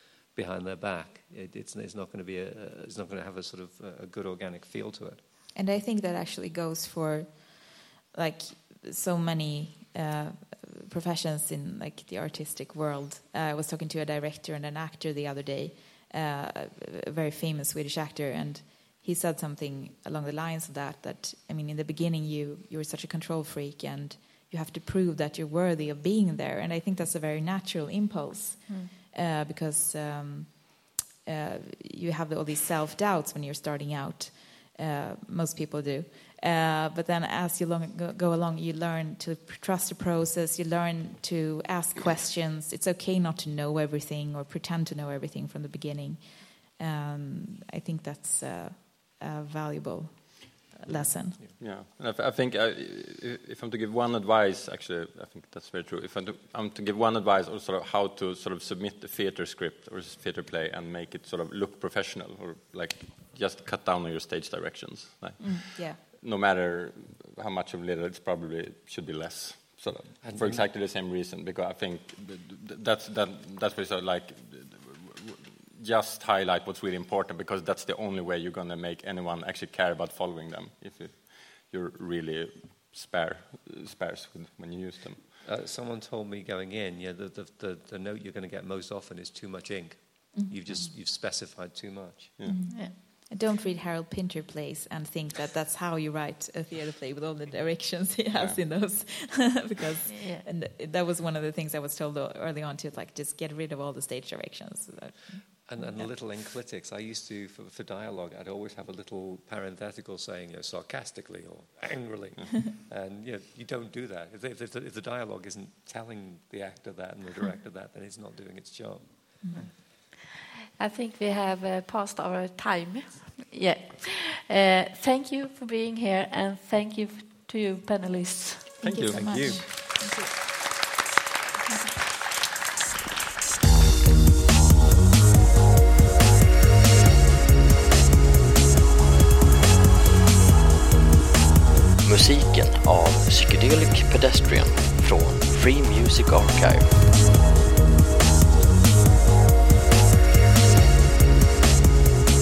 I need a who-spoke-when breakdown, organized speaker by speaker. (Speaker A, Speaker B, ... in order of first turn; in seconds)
Speaker A: 0.3-5.2, 50.8-51.5, 70.2-70.7, 85.4-92.4, 105.6-119.7, 129.1-129.7
Speaker B: 5.5-51.4, 65.4-66.0, 90.3-90.9, 92.5-106.1, 119.4-119.7, 128.8-130.5
Speaker C: 51.6-85.2, 98.3-98.6, 128.8-129.6
Speaker D: 92.7-92.9, 100.1-100.4, 120.8-128.8
Speaker E: 142.0-146.9